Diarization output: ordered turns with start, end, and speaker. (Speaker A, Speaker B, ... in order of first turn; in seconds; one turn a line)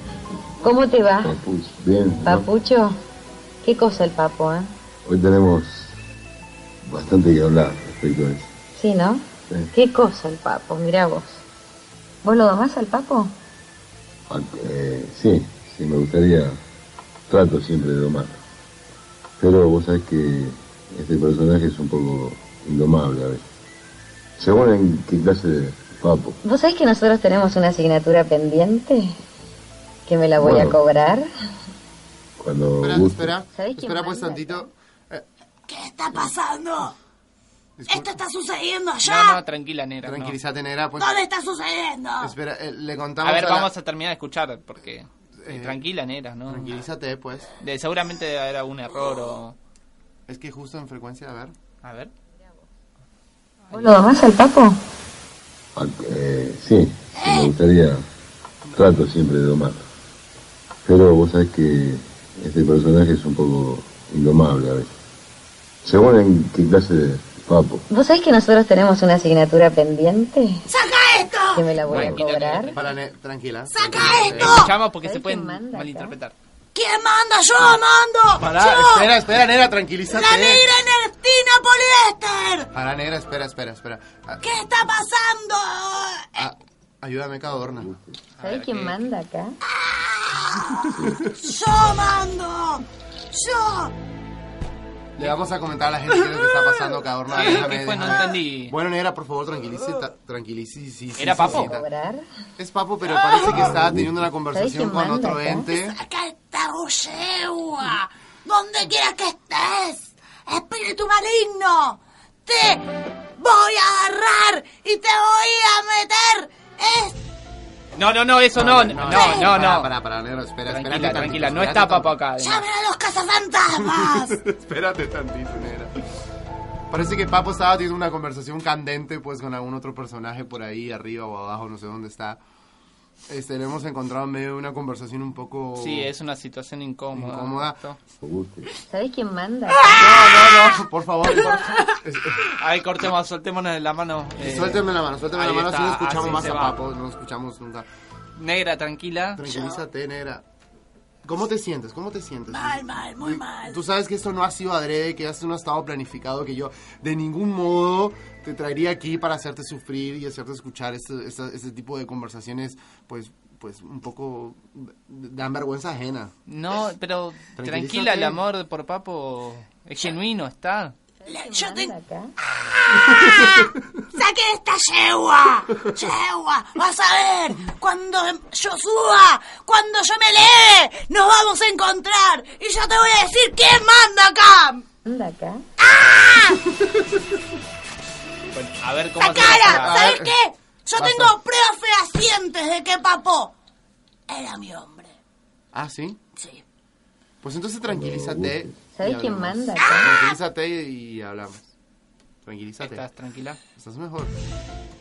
Speaker A: 0.6-1.4
Speaker B: 1.2-2.5
Speaker A: 2.2-3.0
Speaker A: 3.6-4.7
Speaker B: 5.0-6.0
Speaker B: 6.8-8.5
Speaker A: 8.8-11.4
Speaker A: 12.2-13.3
Speaker B: 14.3-16.6
Speaker B: 17.3-18.4
Speaker B: 19.4-23.4
Speaker B: 24.4-26.4
Speaker A: 26.4-29.2
Speaker A: 30.1-31.3
Speaker B: 30.4-30.8
Speaker B: 32.4-33.4
Speaker C: 32.8-35.3
Speaker A: 33.5-34.7
Speaker D: 35.7-37.0
Speaker C: 37.8-38.1
Speaker D: 37.9-39.4
Speaker E: 39.0-40.4
Speaker C: 40.0-41.2
Speaker D: 41.0-42.3
Speaker C: 42.2-43.7
Speaker E: 43.2-46.8
Speaker C: 45.4-45.8
Speaker C: 46.5-47.5
Speaker E: 47.6-49.6
Speaker C: 50.3-51.5
Speaker E: 51.8-52.1
Speaker A: 53.7-54.8
Speaker B: 55.8-58.0
Speaker D: 57.2-57.5
Speaker B: 58.7-59.9
Speaker B: 60.9-64.9
Speaker B: 65.8-67.8
Speaker A: 67.9-70.7
Speaker D: 70.7-71.6
Speaker A: 71.5-72.8
Speaker E: 71.9-72.9
Speaker C: 72.7-74.7
Speaker D: 73.7-74.7
Speaker E: 74.2-76.4
Speaker A: 74.9-76.2
Speaker D: 76.8-79.1
Speaker C: 78.4-80.7
Speaker D: 80.2-82.7
Speaker C: 82.7-84.4
Speaker D: 84.4-86.3
Speaker C: 86.4-87.9
Speaker B: 87.8-88.2
Speaker E: 88.4-89.0
Speaker A: 88.4-89.6
Speaker D: 89.8-92.8
Speaker D: 93.3-93.9
Speaker C: 95.2-101.9
Speaker E: 97.3-98.8
Speaker E: 101.2-101.8
Speaker A: 101.4-102.3
Speaker C: 102.6-106.0
Speaker D: 103.2-103.7
Speaker A: 104.5-105.7
Speaker D: 105.7-117.2
Speaker E: 118.0-119.9
Speaker C: 118.5-122.2
Speaker D: 119.1-119.4
Speaker E: 120.7-122.7
Speaker D: 122.4-124.3
Speaker C: 123.8-126.0
Speaker C: 126.9-132.4
Speaker C: 133.3-136.1
Speaker E: 135.8-138.0
Speaker C: 137.1-137.8
Speaker B: 138.2-138.7
Speaker A: 138.9-139.9
Speaker D: 139.9-140.7
Speaker C: 139.9-142.4
Speaker D: 141.4-141.8
Speaker E: 142.6-146.8
Speaker C: 144.4-147.9
Speaker E: 148.4-149.4
Speaker C: 149.4-150.4
Speaker D: 149.5-149.8
Speaker C: 151.2-166.3
Speaker D: 152.5-153.8
Speaker E: 166.5-171.0
Speaker C: 167.6-168.4
Speaker A: 171.2-172.3
Speaker D: 171.3-171.9
Speaker D: 172.7-184.8
Speaker A: 185.1-185.6
Speaker D: 185.8-186.6
Speaker C: 186.8-187.1
Speaker E: 188.5-190.0
Speaker D: 189.2-193.5
Speaker C: 189.5-190.4
Speaker C: 190.9-191.4
Speaker D: 194.3-195.1
Speaker C: 195.7-196.2
Speaker D: 196.4-196.6
Speaker C: 197.4-201.8
Speaker B: 197.9-198.8
Speaker A: 199.0-200.1
Speaker C: 202.4-203.1
Speaker E: 202.8-203.6
Speaker C: 203.8-204.3